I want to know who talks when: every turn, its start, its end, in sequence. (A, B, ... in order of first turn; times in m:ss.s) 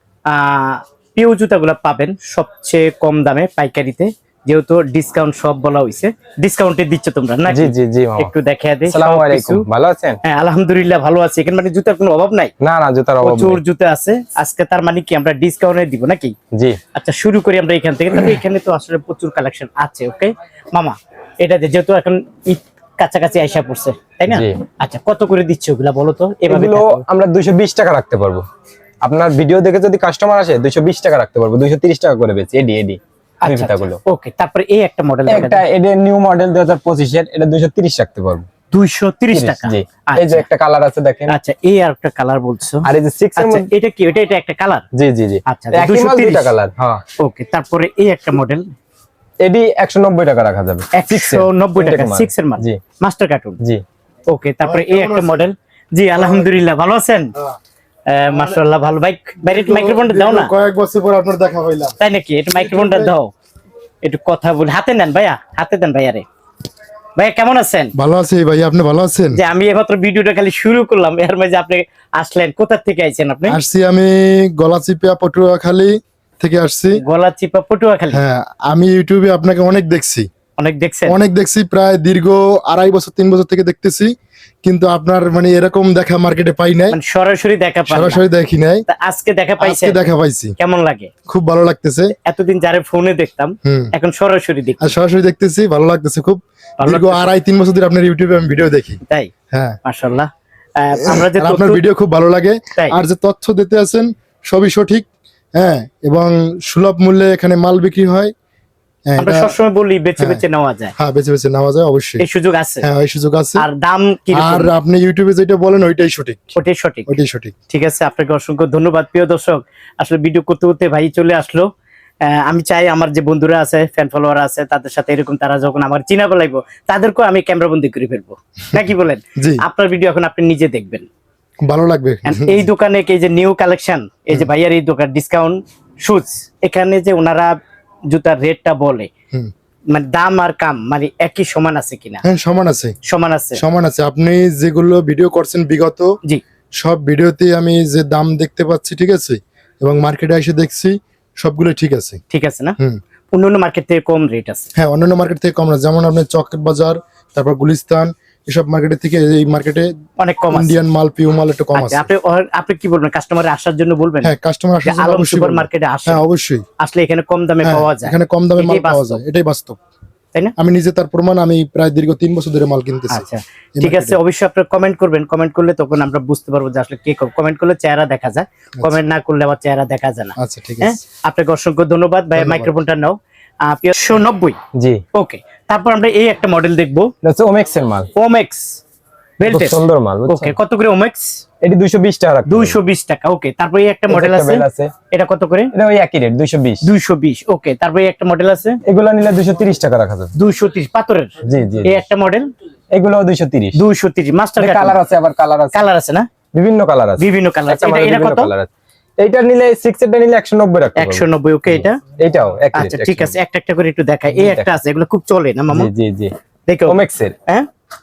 0:00.3-0:09.6 A
0:07.5-0:08.3 B
0:08.9-0:10.2 B
0:10.2-0:12.5 A
0:12.6-0:13.6 B
0:13.2-0:16.3 A
0:16.5-0:16.8 B
0:16.9-0:27.0 A
0:24.3-0:24.6 B
0:26.5-0:28.4 B
0:29.0-0:34.0 B
0:33.4-0:35.6 A
0:35.3-0:38.5 B
0:38.7-0:40.4 A
0:39.3-0:41.3 B
0:41.3-0:44.8 A
0:42.8-0:43.7 B
0:44.9-0:47.0 B
0:45.5-0:46.5 A
0:47.2-0:48.7 A
0:49.4-0:52.8 B
0:50.9-0:53.6 A
0:54.3-0:57.3 A
0:54.6-0:55.4 C
0:56.2-0:56.5 C
0:58.1-1:00.5 A
0:59.4-1:02.0 C
1:02.0-1:03.3 A
1:02.6-1:03.1 C
1:04.0-1:06.2 A
1:07.2-1:07.9 A
1:07.9-1:09.4 C
1:09.3-1:13.6 A
1:13.5-1:17.0 C
1:17.0-1:18.2 A
1:18.1-1:20.3 C
1:20.6-1:21.2 A
1:21.1-1:27.0 C
1:26.9-1:28.2 A
1:27.9-1:28.8 C
1:28.9-1:30.0 A
1:29.6-1:30.5 C
1:30.6-1:31.1 A
1:31.3-1:32.1 C
1:32.2-1:34.9 A
1:33.6-1:33.9 C
1:34.8-1:39.0 C
1:36.8-1:37.3 A
1:39.5-1:39.8 C
1:39.8-1:41.8 A
1:41.2-1:48.3 C
1:49.1-1:49.6 C
1:49.2-1:50.9 A
1:51.0-1:52.2 C
1:52.2-1:52.8 A
1:52.8-1:53.6 C
1:53.6-1:54.7 A
1:54.3-1:56.5 C
1:56.6-1:57.2 A
1:57.1-1:57.5 C
1:57.7-2:01.7 A
2:02.2-2:11.1 A
2:09.4-2:09.6 C
2:11.6-2:12.6 C
2:12.2-2:17.5 A
2:18.1-2:19.1 A
2:19.9-2:22.2 A
2:22.2-2:23.0 C
2:23.0-2:23.6 A
2:23.6-2:26.1 C
2:26.8-2:32.2 C
2:32.3-2:32.8 A
2:33.3-2:34.7 A
2:34.8-2:39.9 C
2:40.2-2:40.8 A
2:40.5-2:42.1 C
2:41.7-2:46.2 A
2:44.2-2:46.6 C
2:46.8-2:49.2 A
2:47.6-2:49.8 C
2:50.6-2:54.2 C
2:53.1-3:04.6 A
3:00.4-3:01.0 C
3:02.4-3:02.7 C
3:04.7-3:05.0 B
3:05.1-3:07.1 A
3:07.2-3:08.1 B
3:08.1-3:08.8 A
3:09.4-3:11.4 A
3:09.4-3:10.6 B
3:11.6-3:12.8 B
3:12.5-3:15.7 A
3:14.1-3:14.9 B
3:15.7-3:16.9 B
3:16.8-3:18.8 A
3:18.8-3:20.3 B
3:20.3-3:22.5 A
3:21.4-3:22.0 B
3:22.9-3:23.8 B
3:23.7-3:25.0 A
3:24.6-3:25.8 B
3:25.7-3:26.3 A
3:26.5-3:33.3 B
3:27.2-3:28.5 A
3:31.0-3:32.0 A
3:32.7-3:35.9 A
3:34.3-3:34.7 B
3:35.7-3:36.3 B
3:36.7-3:37.6 A
3:36.9-3:37.4 B